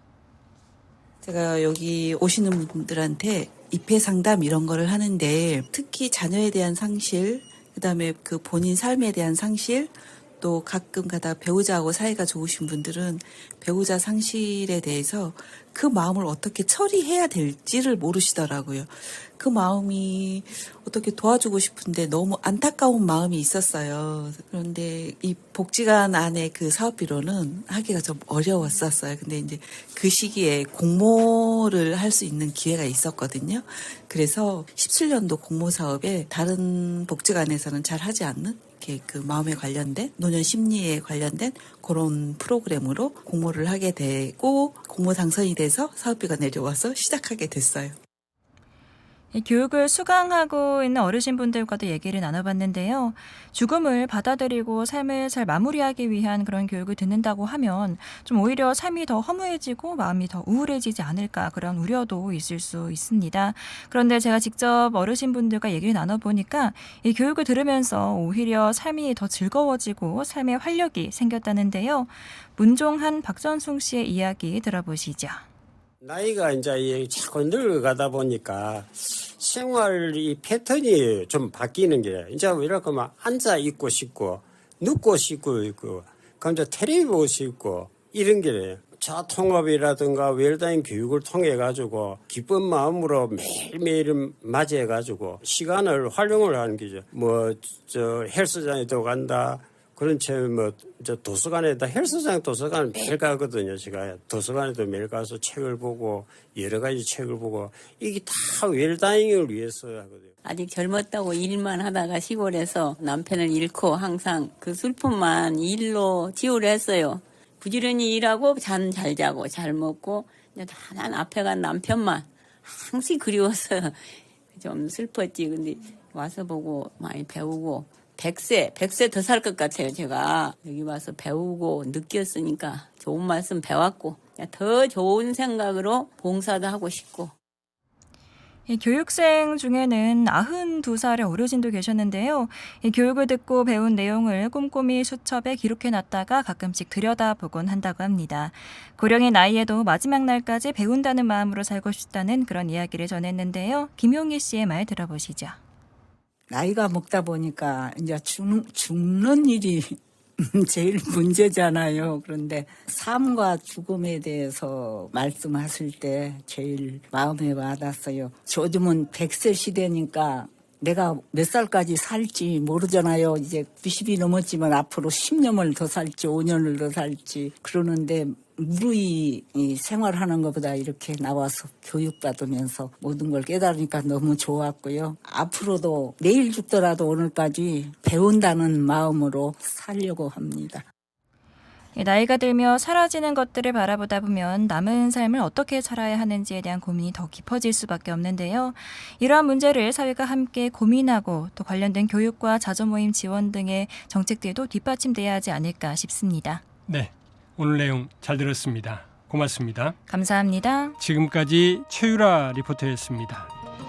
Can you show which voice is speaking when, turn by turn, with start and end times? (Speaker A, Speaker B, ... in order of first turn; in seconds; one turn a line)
Speaker A: 1.2-48.0
Speaker B: 49.3-75.4
Speaker C: 76.0-110.3
Speaker D: 110.4-137.3
Speaker B: 138.7-155.6
Speaker E: 156.5-190.8
Speaker B: 191.9-206.6
Speaker F: 206.8-209.9
Speaker B: 210.1-211.0
Speaker F: 211.0-213.5